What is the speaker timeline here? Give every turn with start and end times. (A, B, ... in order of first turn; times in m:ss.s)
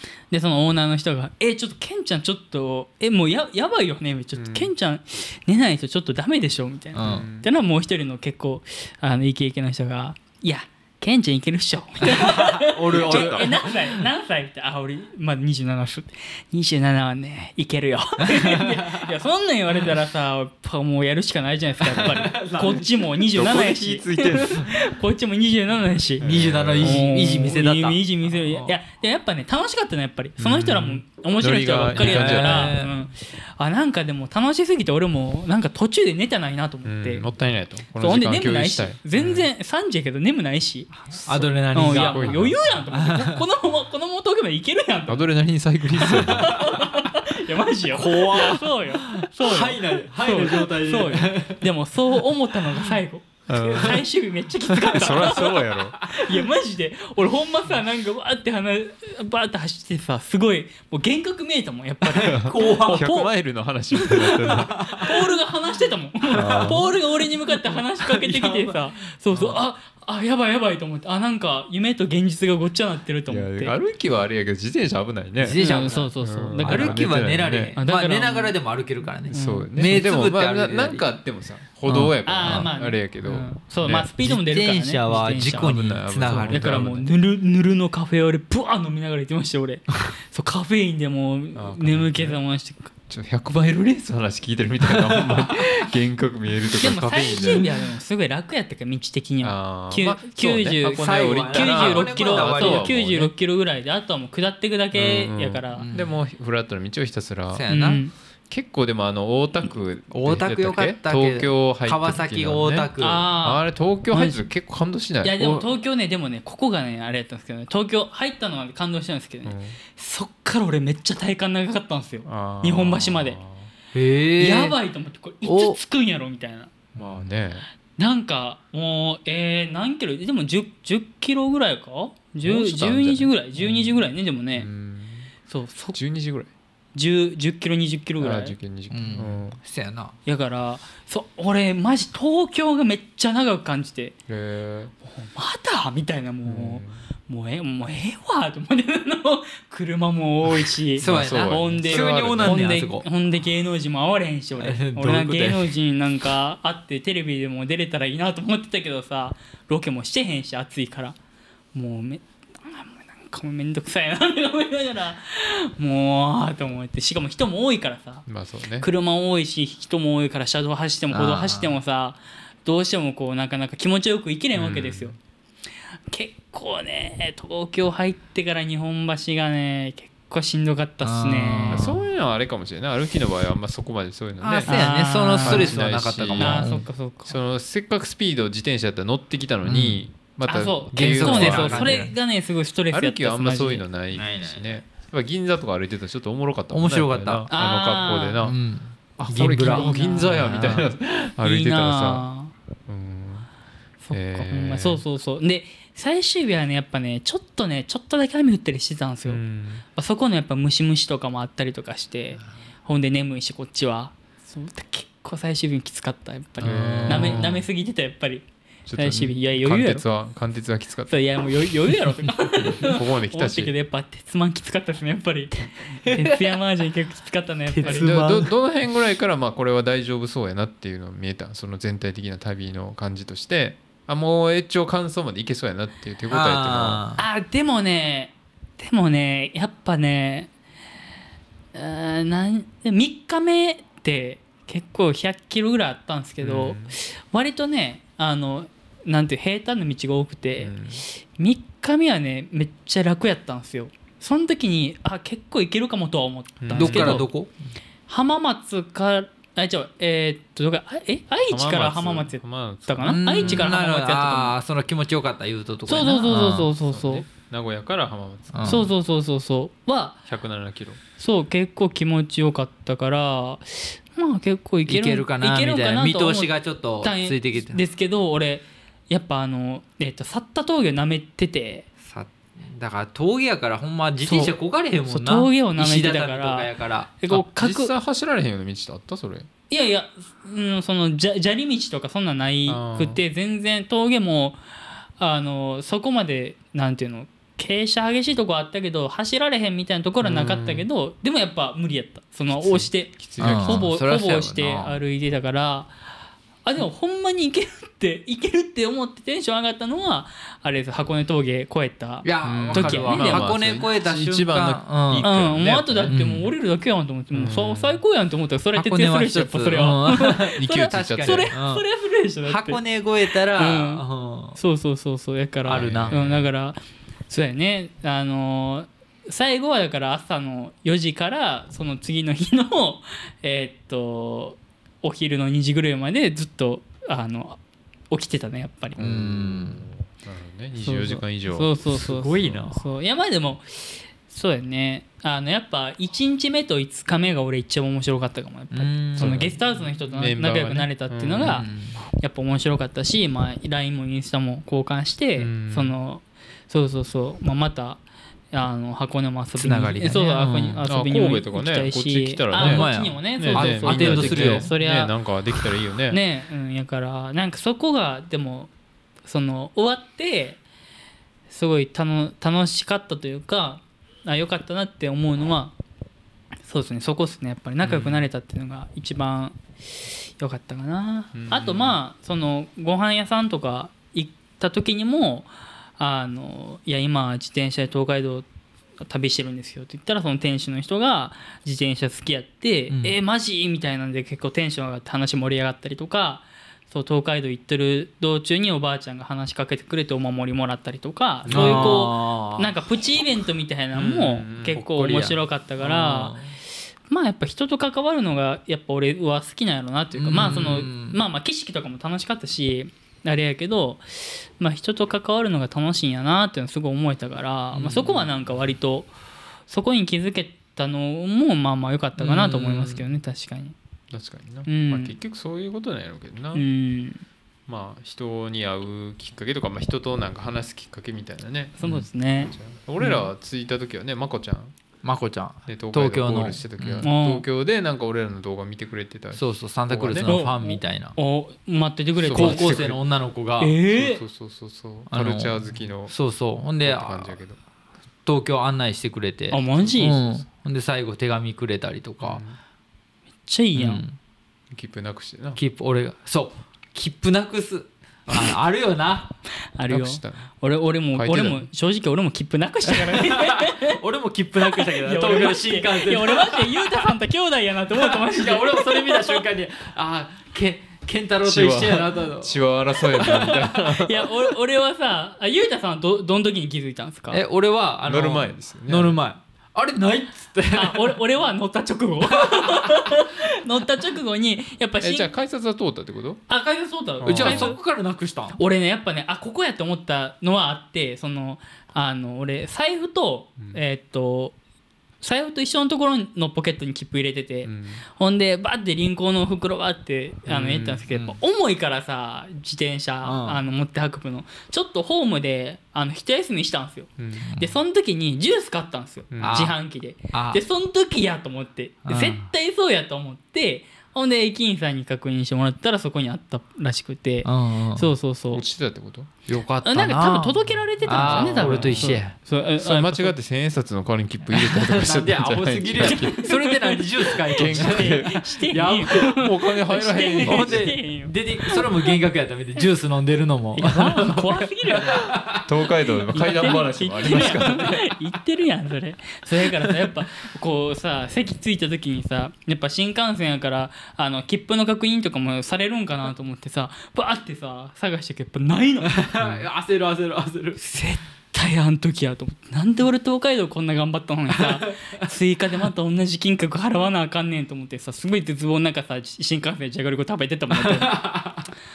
0:00.3-0:37.3 A
0:04.4-0:04.7 B
0:06.9-0:07.3 C
0:07.0-0:07.5 B
0:12.0-0:14.0 C
0:12.9-0:13.5 B
0:18.2-0:19.1 C
0:21.9-0:23.1 C
0:23.3-0:24.8 B
0:26.2-0:27.1 B
0:26.2-0:28.7 C
0:30.4-0:32.7 B
0:31.9-0:32.9 C
0:36.8-0:39.5 B
0:38.0-0:45.3 A
0:41.1-0:43.5 C
0:41.8-0:42.8 B
0:45.1-0:46.6 B
0:46.0-1:03.3 A
0:46.0-0:46.9 C
0:47.9-0:51.6 C
0:53.5-0:54.0 B
0:54.9-0:56.0 B
0:56.0-0:56.3 C
1:02.2-1:05.0 B
1:02.2-1:03.1 C
1:04.1-1:05.3 C
1:04.4-1:13.7 A
1:06.3-1:08.9 C
1:06.3-1:06.9 B
1:09.3-1:09.6 B
1:13.3-1:17.8 B
1:15.4-1:21.0 C
1:15.6-1:17.2 A
1:17.8-1:18.6 A
1:19.3-1:19.7 A
1:19.3-1:24.1 B
1:21.9-1:22.7 C
1:22.2-1:32.9 A
1:24.2-1:26.8 C
1:25.4-1:27.1 B
1:31.5-1:32.4 B
1:33.1-1:37.7 B
1:34.9-1:35.6 C
1:36.8-1:45.9 A
1:39.4-1:43.3 B
1:41.0-1:43.0 C
1:44.9-1:47.6 B
1:45.7-1:46.2 C
1:47.5-1:48.0 C
1:47.7-1:48.1 A
1:48.5-1:55.6 B
1:50.1-1:53.3 C
1:53.0-1:54.4 A
1:55.2-2:03.4 A
1:59.4-1:59.8 B
2:02.2-2:03.7 B
2:03.9-2:04.8 C
2:04.4-2:06.7 A
2:05.4-2:05.8 C
2:07.0-2:07.7 B
2:08.0-2:14.7 A
2:12.4-2:15.3 B
2:15.5-2:16.0 A
2:15.9-2:16.5 B
2:16.9-2:18.5 A
2:18.2-2:19.6 B
2:18.9-2:20.1 C
2:20.2-2:24.2 A
2:24.3-2:24.9 B
2:25.0-2:41.1 A
2:26.4-2:27.0 B
2:31.0-2:33.0 C
2:31.0-2:32.7 B
2:34.6-2:35.7 C
2:41.7-2:48.2 A
2:48.2-2:48.9 B
2:48.8-2:55.1 A
2:51.1-2:51.8 C
2:54.5-2:55.1 B
2:56.1-3:01.9 A
3:01.0-3:02.0 C
3:01.7-3:04.8 B
3:04.4-3:06.9 C
3:04.6-3:05.8 A
3:05.4-3:06.7 B
3:06.4-3:07.4 A
3:07.2-3:12.1 B
3:09.6-3:10.0 C
3:10.5-3:13.8 A
3:10.9-3:12.1 C
3:12.9-3:18.6 B
3:14.1-3:14.8 C
3:16.7-3:17.5 C
3:17.5-3:18.4 A
3:18.4-3:20.9 C
3:19.2-3:22.3 B
3:19.4-3:20.6 A
3:21.4-3:22.5 A
3:22.9-3:23.5 B
3:24.0-3:38.4 A
3:24.1-3:25.0 B
3:29.3-3:29.8 B
3:36.6-3:37.5 C
3:36.6-3:37.6 B
3:38.9-3:41.2 B
3:39.0-3:40.0 A
3:41.1-3:48.1 A
3:42.4-3:43.7 B
3:46.1-3:46.6 C
3:47.7-3:48.5 C
3:47.8-3:57.0 B
3:56.3-3:57.2 C
3:57.2-4:00.5 A
4:01.7-4:17.3 A
4:06.4-4:06.9 B
4:10.6-4:11.0 B
4:16.6-4:17.2 B
4:16.7-4:17.5 C
4:18.1-4:24.6 A
4:21.5-4:23.7 B
4:23.0-4:26.7 C
4:25.9-4:27.3 A
4:26.9-4:28.9 B
4:28.5-4:28.9 C
4:28.6-4:30.2 A
4:30.3-4:31.0 B
4:31.2-4:41.8 A
4:34.9-4:37.8 C
4:42.0-4:47.1 C
4:44.2-4:47.9 A
4:47.3-4:49.5 B
4:49.7-4:54.6 A
4:52.7-4:53.2 B
4:55.2-5:05.9 A
5:00.2-5:00.8 B
5:02.5-5:03.9 B
5:03.4-5:04.9 C
5:06.6-5:13.5 A
5:12.2-5:15.3 C
5:12.4-5:16.2 B
5:15.2-5:24.0 A
5:16.1-5:16.5 C
5:17.3-5:18.0 B
5:18.7-5:21.8 C
5:20.6-5:21.5 B
5:22.4-5:24.6 C
5:24.6-5:26.8 A
5:25.6-5:26.2 C
5:25.7-5:26.5 B
5:27.3-5:37.6 A
5:38.1-5:39.0 A
5:39.0-5:42.7 B
5:39.0-5:39.9 C
5:40.8-5:58.0 A
5:41.9-5:42.8 C
5:48.7-5:49.5 C
5:49.2-5:51.7 B
5:51.4-5:52.0 C
5:55.4-5:55.9 B
5:58.5-6:05.1 A
5:59.6-6:00.8 C
6:00.9-6:06.2 B
6:02.6-6:04.7 C
6:06.1-6:08.7 A
6:09.2-6:10.6 A
6:11.5-6:15.8 A
6:16.6-6:19.6 A
6:17.8-6:18.2 B
6:20.4-6:28.4 A
6:21.3-6:22.0 B
6:29.0-6:46.4 A
6:32.9-6:33.2 C
6:41.4-6:42.1 B
6:41.5-6:42.8 C
6:43.9-6:44.8 B
6:44.8-6:46.5 C
6:47.1-6:59.1 A
6:50.1-6:51.2 C
6:57.7-6:58.3 B
6:59.7-7:03.7 A
7:02.2-7:03.0 C
7:04.1-7:06.6 B
7:04.7-7:05.1 A
7:06.5-7:07.2 A
7:07.7-7:14.7 B
7:11.8-7:13.2 A
7:15.0-7:17.1 C
7:15.7-7:20.3 B
7:17.0-7:17.4 A
7:19.3-7:21.1 C
7:20.2-7:22.9 A
7:22.2-7:23.0 B
7:22.3-7:23.7 C
7:23.6-7:24.2 A
7:23.9-7:26.1 B
7:25.1-7:27.4 C
7:26.8-7:27.6 B
7:28.2-7:32.4 C
7:29.5-7:30.2 A
7:29.8-7:30.4 B
7:32.2-7:32.6 B
7:33.5-7:34.0 A
7:33.7-7:34.2 C
7:34.7-7:35.6 B
7:35.6-7:39.3 C
7:39.8-7:44.0 A
7:39.9-7:40.5 B
7:41.1-7:41.7 B
7:42.9-7:47.1 C
7:44.6-7:49.4 A
7:47.9-7:53.7 C
7:51.4-7:54.2 B
7:53.4-7:57.4 A
7:57.3-8:01.2 C
7:58.0-7:59.2 B
8:00.7-8:05.3 A
8:02.3-8:03.1 C
8:05.0-8:06.4 B
8:06.5-8:07.8 A
8:07.2-8:07.7 B
8:07.2-8:08.6 C
8:08.5-8:14.6 A
8:15.2-8:38.6 A
8:17.6-8:18.0 B
8:20.5-8:21.0 B
8:21.1-8:21.4 C
8:23.2-8:23.6 C
8:27.2-8:27.5 B
8:27.4-8:27.8 C
8:29.3-8:29.7 B
8:29.4-8:29.8 C
8:30.3-8:30.6 C
8:32.0-8:32.5 C
8:37.4-8:38.1 C
8:38.5-8:39.3 B
8:39.5-8:42.3 C
8:39.8-8:43.3 A
8:41.0-8:42.2 B
8:42.8-8:46.5 B
8:44.5-8:49.4 C
8:46.0-8:52.2 A
8:47.5-8:50.9 B
8:50.4-8:55.6 C
8:53.7-8:55.4 A
8:55.6-8:58.1 B
8:56.3-9:09.2 A
9:09.0-9:10.8 C
9:09.4-9:09.6 B
9:10.8-9:21.3 A
9:14.5-9:15.2 C
9:20.7-9:21.7 C